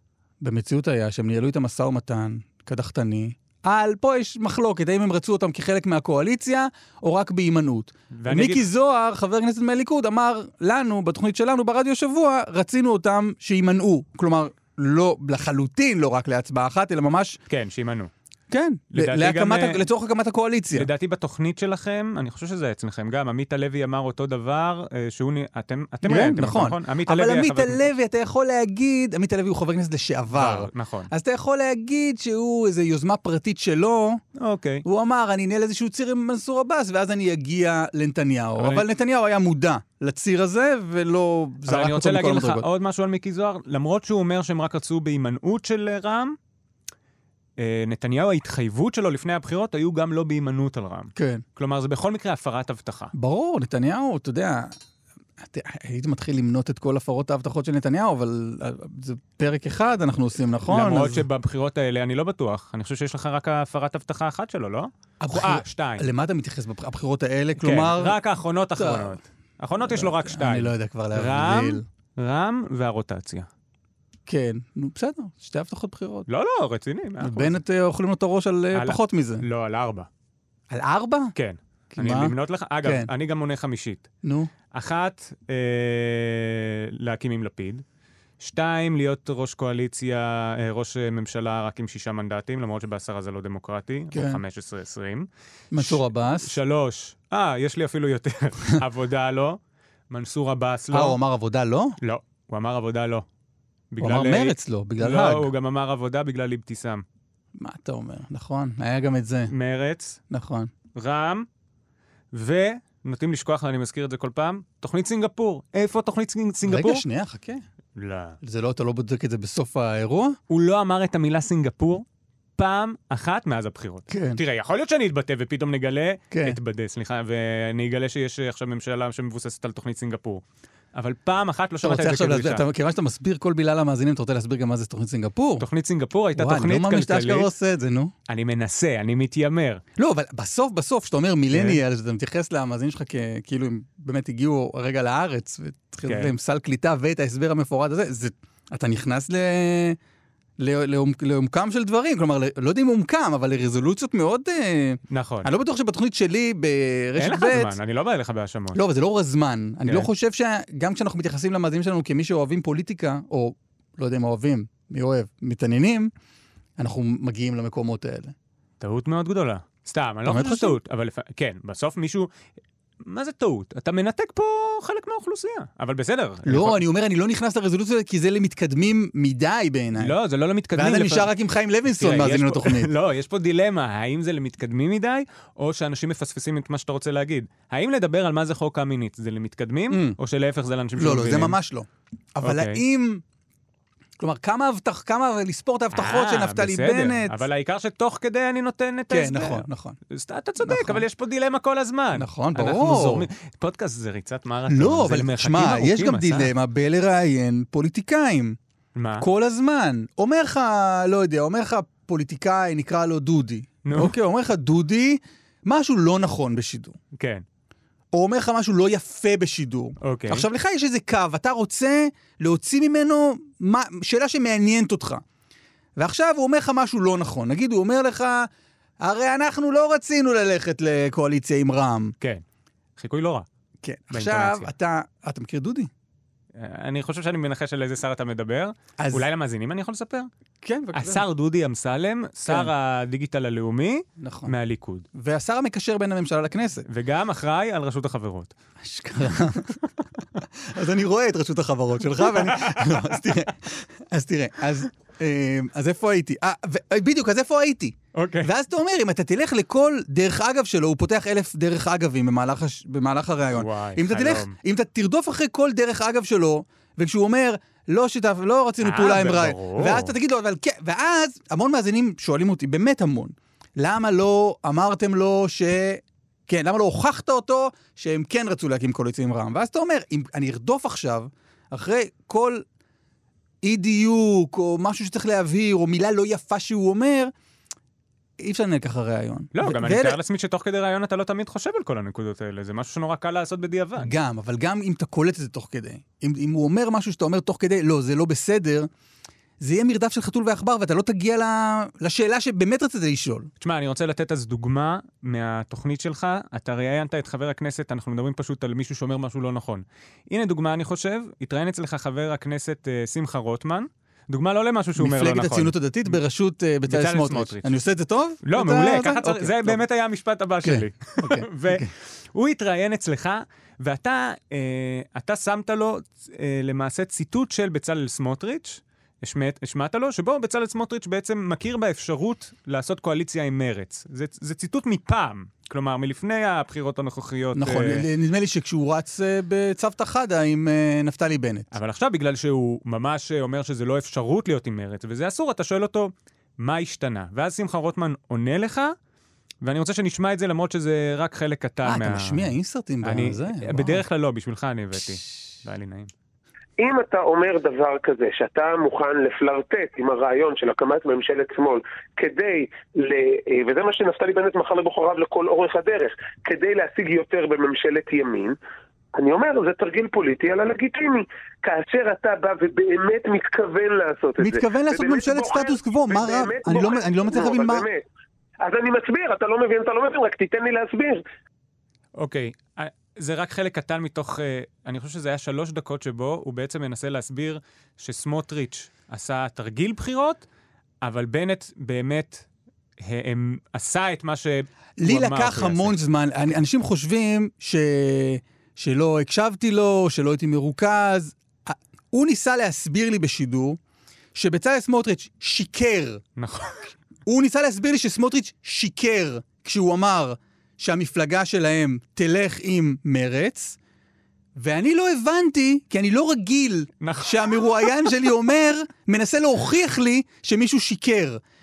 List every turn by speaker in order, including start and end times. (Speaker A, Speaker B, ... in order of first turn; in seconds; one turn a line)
Speaker A: 0.4-17.4
Speaker B: 8.1-8.7
Speaker B: 17.5-18.1
Speaker A: 18.5-20.9
Speaker B: 18.9-19.9
Speaker B: 20.7-27.8
Speaker A: 26.0-34.2
Speaker B: 30.3-31.1
Speaker B: 34.4-34.9
Speaker A: 34.9-42.7
Speaker B: 38.6-38.9
Speaker B: 41.7-46.4
Speaker B: 47.6-53.1
Speaker A: 51.2-51.5
Speaker A: 53.1-54.8
Speaker A: 55.4-61.2
Speaker B: 60.7-66.1
Speaker A: 65.2-68.2
Speaker B: 67.6-73.5
Speaker A: 68.8-69.2
Speaker A: 69.8-71.8
Speaker A: 74.2-76.3
Speaker B: 76.3-77.6
Speaker A: 77.2-79.4
Speaker B: 78.7-80.1
Speaker A: 80.7-81.3
Speaker B: 81.3-84.1
Speaker A: 81.9-83.1
Speaker A: 84.2-84.5
Speaker B: 84.7-87.8
Speaker B: 88.4-99.6
Speaker A: 94.1-94.4
Speaker A: 95.7-96.5
Speaker B: 100.1-101.2
Speaker A: 100.9-102.0
Speaker B: 102.0-103.2
Speaker B: 103.9-107.0
Speaker A: 104.0-105.5
Speaker A: 107.5-109.5
Speaker B: 109.5-110.2
Speaker A: 110.3-110.7
Speaker B: 110.9-111.5
Speaker B: 112.3-117.0
Speaker A: 116.7-117.6
Speaker B: 118.0-118.4
Speaker A: 118.4-120.4
Speaker B: 120.5-122.1
Speaker B: 122.6-132.7
Speaker A: 124.1-124.4
Speaker A: 126.3-126.6
Speaker A: 131.8-135.7
Speaker B: 135.6-137.5
Speaker A: 136.3-138.1
Speaker B: 138.3-139.8
Speaker A: 140.0-150.0
Speaker B: 141.5-141.8
Speaker B: 146.0-146.3
Speaker A: 150.6-157.8
Speaker B: 155.1-155.5
Speaker B: 157.2-158.8
Speaker A: 158.7-166.1
Speaker A: 166.8-168.3
Speaker B: 168.8-172.3
Speaker A: 170.2-170.8
Speaker B: 173.0-176.8
Speaker A: 176.5-180.2
Speaker B: 180.0-181.3
Speaker A: 180.8-182.9
Speaker B: 181.9-191.6
Speaker A: 189.9-190.2
Speaker A: 191.0-193.2
Speaker B: 192.4-192.8
Speaker A: 194.2-197.4
Speaker B: 195.9-206.5
Speaker A: 199.1-200.0
Speaker A: 200.6-201.0
Speaker A: 202.2-203.3
Speaker A: 204.7-208.6
Speaker B: 208.9-209.3
Speaker A: 209.2-217.0
Speaker B: 213.8-214.1
Speaker B: 217.1-217.4
Speaker A: 218.1-225.2
Speaker B: 220.0-220.5
Speaker A: 226.0-228.5
Speaker A: 229.0-232.2
Speaker B: 233.0-233.5
Speaker A: 233.8-235.9
Speaker B: 234.1-234.7
Speaker B: 236.5-240.3
Speaker A: 239.0-239.2
Speaker A: 240.6-241.2
Speaker B: 240.9-245.1
Speaker A: 242.5-242.7
Speaker A: 244.2-244.5
Speaker A: 245.1-246.9
Speaker B: 246.9-248.5
Speaker A: 248.8-249.8
Speaker A: 250.4-282.6
Speaker B: 252.3-253.0
Speaker B: 258.1-258.5
Speaker B: 263.5-264.6
Speaker B: 268.8-270.1
Speaker A: 283.6-287.3
Speaker A: 288.4-290.2
Speaker B: 289.5-294.1
Speaker A: 294.0-298.9
Speaker A: 299.6-303.5
Speaker B: 303.6-316.2
Speaker A: 315.0-319.8
Speaker B: 316.9-317.7
Speaker B: 318.4-338.1
Speaker A: 320.6-321.9
Speaker A: 337.5-341.7
Speaker B: 341.7-348.9
Speaker B: 349.6-352.5
Speaker A: 351.9-354.0
Speaker B: 353.0-356.1
Speaker C: 356.8-368.5
Speaker C: 369.1-378.0
Speaker A: 374.4-377.9
Speaker C: 378.6-381.2
Speaker B: 382.2-390.4
Speaker B: 391.0-392.5
Speaker B: 393.0-396.0
Speaker A: 395.0-403.8
Speaker A: 404.4-406.2
Speaker B: 406.4-406.9
Speaker A: 407.2-413.8
Speaker A: 414.6-421.4
Speaker B: 417.0-417.9